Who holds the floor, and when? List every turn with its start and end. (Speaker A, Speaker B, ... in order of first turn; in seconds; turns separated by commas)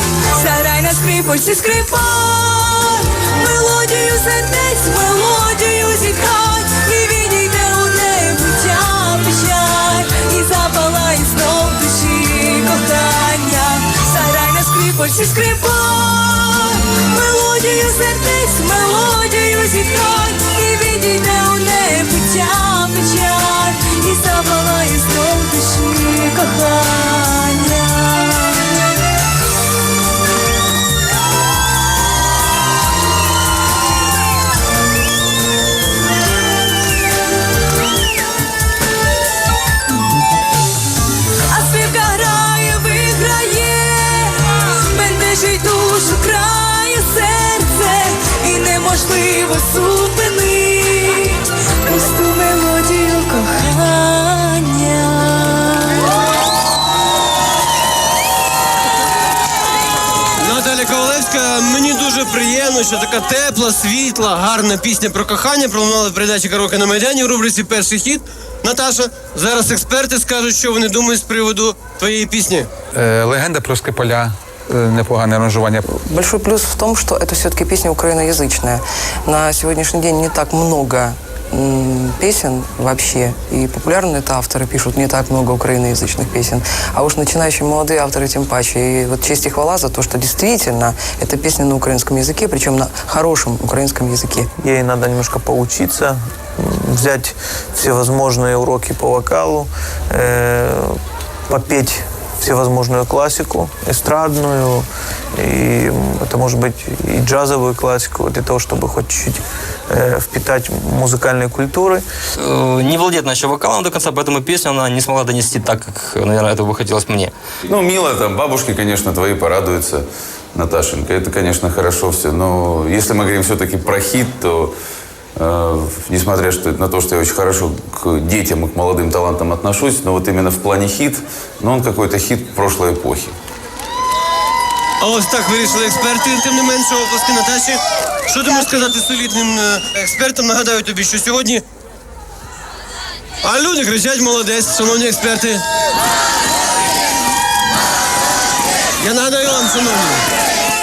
Speaker A: 0.3-28.8, Speaker A: 41.5-56.1, Speaker B: 60.4-72.7, Speaker C: 72.9-75.8, Speaker D: 75.8-94.5, Speaker E: 94.6-104.8, Speaker E: 105.4-112.0, Speaker F: 112.4-117.3, Speaker G: 117.7-124.7, Speaker G: 125.4-133.3, Speaker B: 135.0-141.6, Speaker B: 143.4-145.6, Speaker B: 149.0-150.2